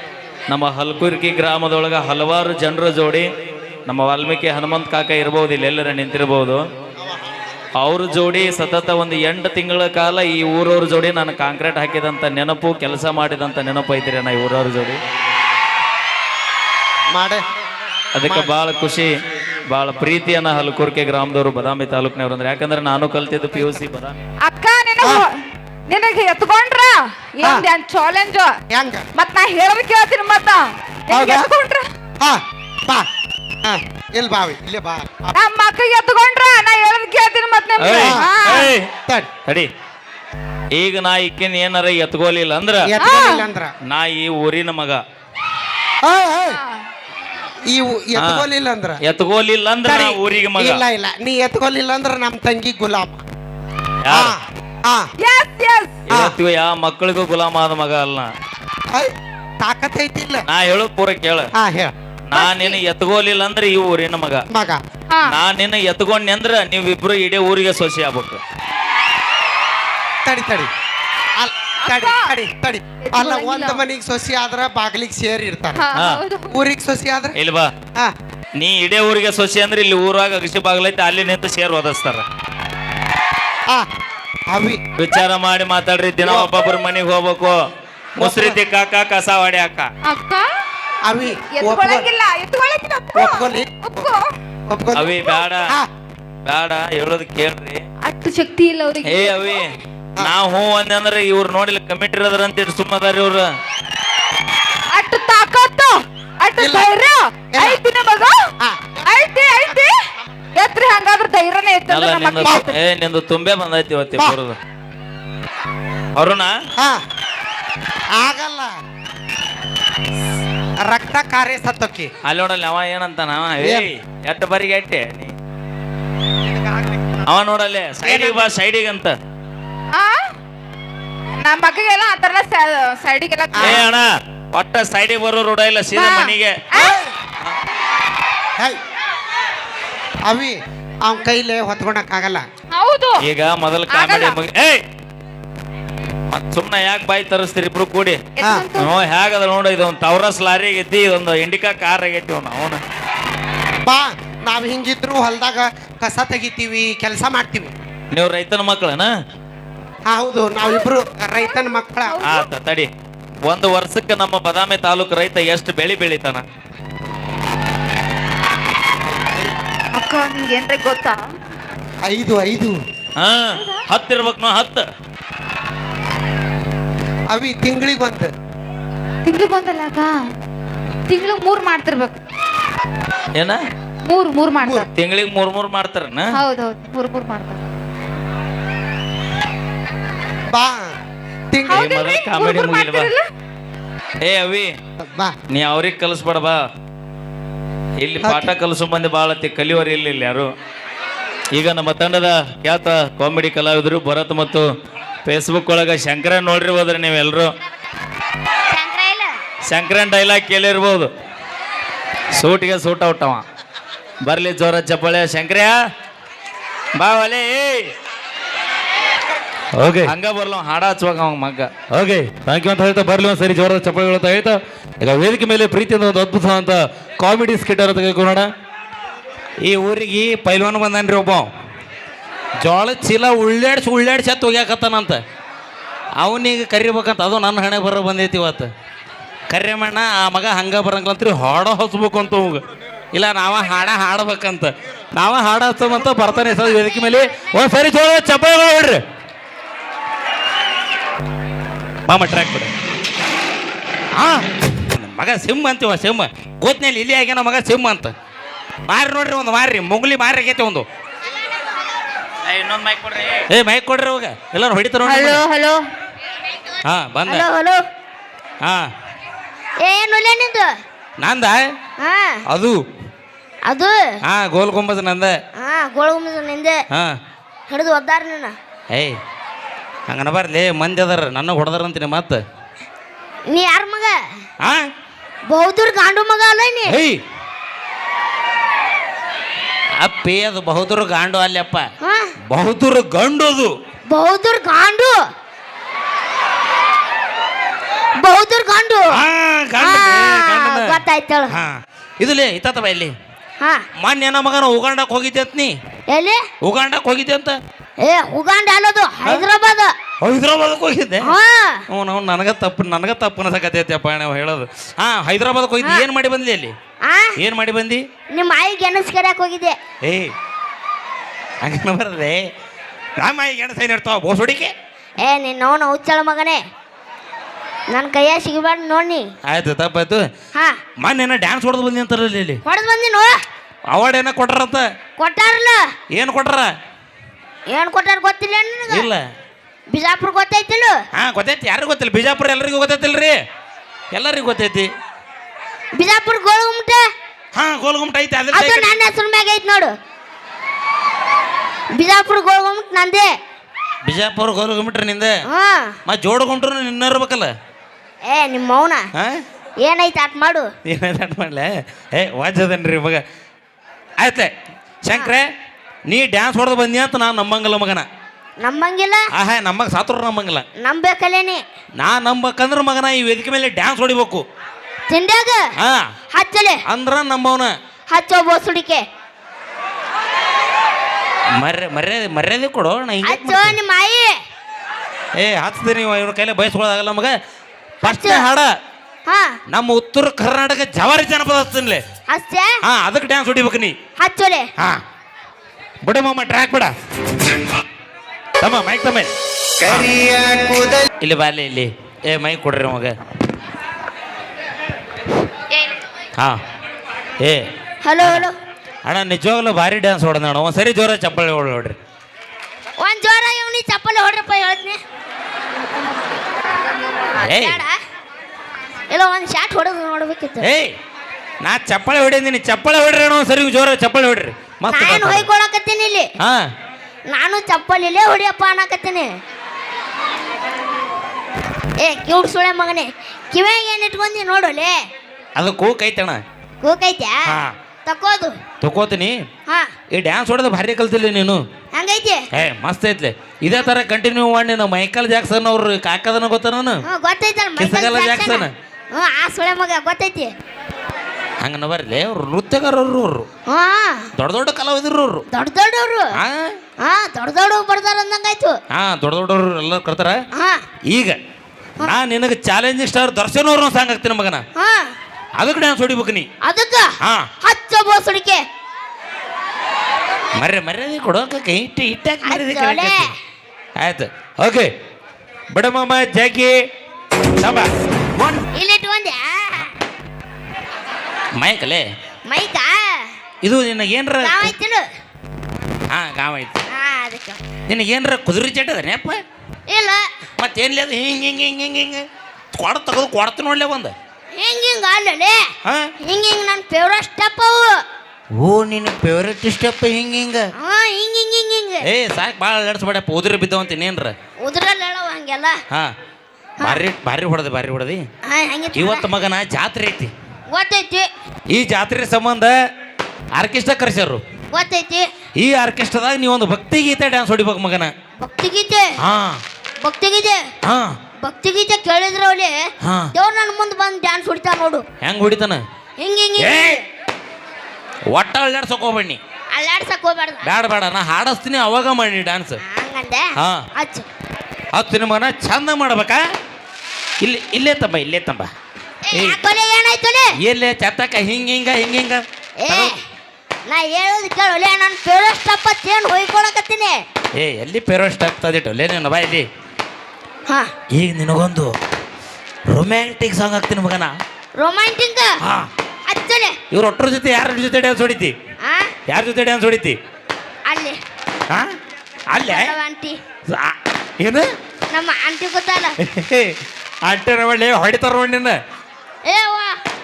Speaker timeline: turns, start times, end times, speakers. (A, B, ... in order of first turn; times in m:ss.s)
0:00.5-0:03.3 A
0:03.9-0:06.6 A
0:07.8-0:15.0 A
0:17.1-0:17.4 B
0:18.2-0:19.1 A
0:19.7-0:24.2 A
0:24.5-0:28.6 C
0:27.4-0:27.7 B
0:28.7-0:29.1 B
0:29.2-0:31.8 C
0:31.1-0:31.5 B
0:32.2-0:33.1 B
0:33.6-0:35.4 B
0:35.4-0:38.7 C
0:37.8-0:38.9 A
0:38.0-0:39.3 B
0:40.7-0:42.9 A
0:42.8-0:43.7 B
0:43.0-0:43.5 C
0:43.9-0:45.0 A
0:46.0-0:46.6 B
0:47.7-0:49.0 B
0:48.2-0:48.4 A
0:49.0-0:50.8 A
0:49.8-0:53.2 B
0:54.0-0:54.4 A
0:54.1-0:55.1 B
0:55.2-0:56.0 C
0:56.1-0:58.3 A
0:58.9-1:00.4 B
1:00.5-1:01.5 A
1:01.6-1:01.9 B
1:02.3-1:04.5 A
1:02.3-1:02.8 C
1:04.5-1:04.8 B
1:05.3-1:08.4 A
1:10.2-1:10.7 B
1:11.4-1:15.8 B
1:11.8-1:12.3 C
1:13.0-1:13.8 C
1:15.8-1:16.6 C
1:15.9-1:16.2 A
1:16.5-1:17.4 B
1:17.4-1:17.7 A
1:18.6-1:22.2 A
1:24.5-1:24.8 B
1:25.0-1:27.6 A
1:26.2-1:26.7 B
1:28.2-1:28.6 B
1:28.2-1:29.9 A
1:30.1-1:30.5 C
1:31.1-1:32.1 B
1:31.5-1:34.3 C
1:33.2-1:34.1 B
1:34.7-1:35.9 B
1:35.0-1:35.8 A
1:36.5-1:37.8 A
1:38.0-1:39.6 C
1:39.0-1:43.5 A
1:44.9-1:48.5 C
1:46.6-1:46.9 B
1:47.6-1:47.8 B
1:48.6-1:49.2 B
1:49.0-1:52.8 C
1:51.9-1:54.6 A
1:56.2-1:56.5 A
1:56.8-1:57.0 B
1:58.2-1:58.7 B
2:00.8-2:02.1 B
2:02.2-2:05.3 A
2:03.6-2:03.9 B
2:06.4-2:07.2 B
2:07.2-2:09.2 A
2:08.0-2:08.5 B
2:09.9-2:10.3 C
2:11.4-2:13.8 C
2:13.5-2:13.8 B
2:13.6-2:16.6 A
2:16.0-2:17.0 C
2:16.7-2:17.1 B
2:20.2-2:22.5 B
2:22.7-2:23.2 C
2:23.2-2:24.8 A
2:23.9-2:24.4 C
2:26.3-2:28.2 A
2:28.4-2:29.0 C
2:28.4-2:28.7 B
2:28.8-2:32.8 A
2:33.8-2:37.7 B
2:38.1-2:39.1 A
2:40.1-2:42.2 B
2:40.7-2:40.9 C
2:42.0-2:42.5 C
2:42.2-2:42.9 A
2:43.4-2:46.4 A
2:49.9-2:51.4 C
2:52.0-2:52.8 B
2:53.2-2:54.9 A
2:53.6-2:53.8 C
2:57.3-2:58.3 B
2:59.3-3:00.3 C
3:01.1-3:02.2 C
3:04.0-3:04.9 C
3:04.6-3:04.9 B
3:04.9-3:06.3 A
3:06.3-3:07.6 C
3:10.5-3:11.0 B
3:11.5-3:11.9 B
3:11.7-3:13.3 C
3:11.7-3:13.1 A
3:14.2-3:14.7 A
3:15.0-3:15.4 B
3:15.5-3:16.7 A
3:18.0-3:20.5 A
3:18.2-3:18.5 B
3:21.5-3:24.7 A
3:25.2-3:27.5 A
3:28.7-3:29.4 D
3:29.7-3:31.1 A
3:32.4-3:33.4 A
3:34.2-3:35.8 A
3:37.0-3:37.9 A
3:39.8-3:40.1 E
3:40.1-3:41.7 A
3:41.9-3:48.5 E
3:49.6-3:51.5 E
3:52.6-3:55.2 E
3:56.2-3:58.7 E
3:59.5-4:02.6 E
4:03.1-4:09.0 E
4:12.1-4:12.7 E
4:14.2-4:18.1 E
4:18.9-4:20.9 E
4:22.4-4:23.5 A
4:23.5-4:25.4 E
4:25.0-4:25.8 C
4:26.8-4:27.5 E
4:27.3-4:27.8 D
4:28.6-4:28.9 E
4:29.8-4:30.8 D
4:31.2-4:31.6 E
4:32.0-4:32.4 D
4:32.5-4:32.8 E
4:33.7-4:34.2 D
4:34.2-4:35.4 E
4:35.6-4:36.8 D
4:36.9-4:37.2 E
4:37.7-4:38.6 D
4:38.9-4:39.2 E
4:40.1-4:42.4 E
4:43.5-4:44.3 D
4:44.6-4:44.9 E
4:45.5-4:47.0 D
4:46.9-4:47.2 E
4:50.0-4:51.9 E
4:52.0-4:52.3 D
4:52.5-4:53.7 E
4:54.1-4:55.3 D
4:58.2-4:59.2 D
4:59.1-5:03.1 E
4:59.8-5:01.5 D
5:03.6-5:03.9 D
5:04.0-5:05.8 E
5:06.1-5:06.5 D
5:06.6-5:07.6 E
5:08.0-5:09.9 D
5:10.2-5:11.3 E
5:11.2-5:11.8 D
5:11.9-5:16.7 E
5:15.8-5:16.1 D
5:17.0-5:17.4 D
5:17.4-5:18.0 E
5:18.3-5:19.8 D
5:20.0-5:20.3 E
5:21.6-5:22.4 E
5:23.2-5:24.7 E
5:25.2-5:26.6 D
5:27.9-5:29.3 D
5:29.5-5:30.3 E
5:30.5-5:30.8 D
5:31.0-5:32.6 E
5:32.6-5:33.4 D
5:33.9-5:34.9 E
5:35.2-5:35.9 D
5:36.1-5:36.7 E
5:37.7-5:39.1 D
5:38.9-5:39.2 E
5:39.9-5:41.0 D
5:41.2-5:43.4 E
5:44.1-5:44.9 E
5:46.0-5:47.1 D
5:47.6-5:49.0 E
5:48.5-5:50.0 D
5:52.0-5:53.4 D
5:54.0-5:55.4 E
5:55.5-5:56.0 D
5:56.1-5:57.5 E
5:58.2-5:59.1 D
5:59.8-6:00.7 D
6:00.9-6:03.2 E
6:04.2-6:04.5 E
6:05.0-6:05.5 E
6:06.1-6:08.1 E
6:08.6-6:09.3 D
6:09.3-6:10.6 E
6:10.8-6:11.6 D
6:12.0-6:14.4 E
6:15.1-6:15.8 D
6:15.8-6:16.1 E
6:16.3-6:16.8 D
6:16.9-6:17.7 E
6:18.1-6:19.0 D
6:21.6-6:23.8 E
6:23.2-6:24.4 D
6:25.4-6:27.4 E
6:28.0-6:28.7 E
6:28.0-6:28.5 D
6:29.3-6:29.6 D
6:29.7-6:32.0 E
6:32.3-6:32.8 D
6:32.8-6:34.0 E
6:34.2-6:34.7 D
6:36.0-6:36.9 E
6:38.6-6:43.2 E
6:47.4-6:47.7 E
6:48.0-6:48.6 D
6:48.2-6:48.5 E
6:49.0-6:52.0 E
6:53.0-6:55.0 D
6:57.4-6:58.0 D
6:57.4-6:57.8 E
6:59.1-7:00.7 D
7:00.6-7:00.9 E
7:01.6-7:05.5 E
7:04.9-7:06.3 D
7:07.3-7:09.4 D
7:12.0-7:15.1 D
7:15.6-7:16.4 E
7:16.8-7:18.6 D
7:17.4-7:17.8 E
7:18.8-7:19.4 E
7:19.7-7:19.9 D
7:20.1-7:21.6 E
7:21.9-7:22.5 D
7:22.5-7:27.0 E
7:27.0-7:30.5 D
7:27.8-7:28.7 E
7:31.6-7:33.5 E
7:33.7-7:34.3 D
7:34.4-7:35.4 E
7:35.5-7:36.3 D
7:36.3-7:36.8 E
7:37.0-7:38.8 D
7:38.9-7:40.4 E
7:40.5-7:40.8 D
7:41.1-7:41.4 E
7:42.0-7:44.6 E
7:44.8-7:45.2 D
7:45.6-7:46.5 E
7:46.6-7:48.6 D
7:47.2-7:47.5 E
7:50.6-7:53.3 E
7:52.4-7:53.3 D
7:54.0-7:54.9 E
7:55.7-7:56.8 E
7:57.6-7:58.7 E
7:58.7-7:59.9 D
8:01.6-8:02.1 E
8:02.5-8:03.4 D
8:03.6-8:04.7 E
8:04.4-8:05.1 D
8:06.1-8:06.8 E
8:06.9-8:07.6 D
8:07.9-8:09.4 E
8:09.9-8:10.3 D
8:10.6-8:14.2 E
8:14.6-8:15.7 D
8:15.8-8:16.1 E
8:16.2-8:18.0 D
8:18.6-8:20.7 E
8:20.8-8:22.1 D
8:22.0-8:24.3 E
8:24.6-8:25.8 D
8:26.8-8:28.2 E
8:28.5-8:29.3 D
8:29.0-8:30.3 E
8:30.7-8:31.3 D
8:31.7-8:32.8 E
8:33.5-8:34.4 E
8:34.7-8:35.3 D
8:35.6-8:38.1 E
8:38.4-8:39.2 D
8:39.2-8:39.6 E
8:40.0-8:40.7 D
8:40.8-8:41.2 E
8:41.4-8:45.0 D
8:43.0-8:43.3 E
8:45.2-8:45.8 E
8:46.2-8:47.0 D
8:46.6-8:47.0 E
8:48.3-8:49.4 E
8:49.7-8:50.7 D
8:50.6-8:52.8 E
8:52.8-8:54.3 D
8:53.6-8:53.9 E
8:54.9-8:56.4 E
8:57.4-8:58.7 E
8:59.3-9:00.6 D
8:59.3-8:59.6 E
9:00.6-9:03.1 E
9:02.8-9:03.2 D
9:03.9-9:07.2 D
9:07.6-9:09.7 E
9:11.1-9:11.9 E
9:12.9-9:14.4 E
9:14.8-9:15.6 D
9:15.6-9:15.9 E
9:16.3-9:16.8 D
9:16.9-9:18.6 E
9:18.8-9:19.2 D
9:19.3-9:20.2 E
9:20.9-9:21.2 D
9:22.5-9:23.0 E
9:22.6-9:23.4 D
9:23.7-9:24.7 E
9:25.1-9:26.2 D
9:26.2-9:28.8 E
9:29.4-9:30.0 D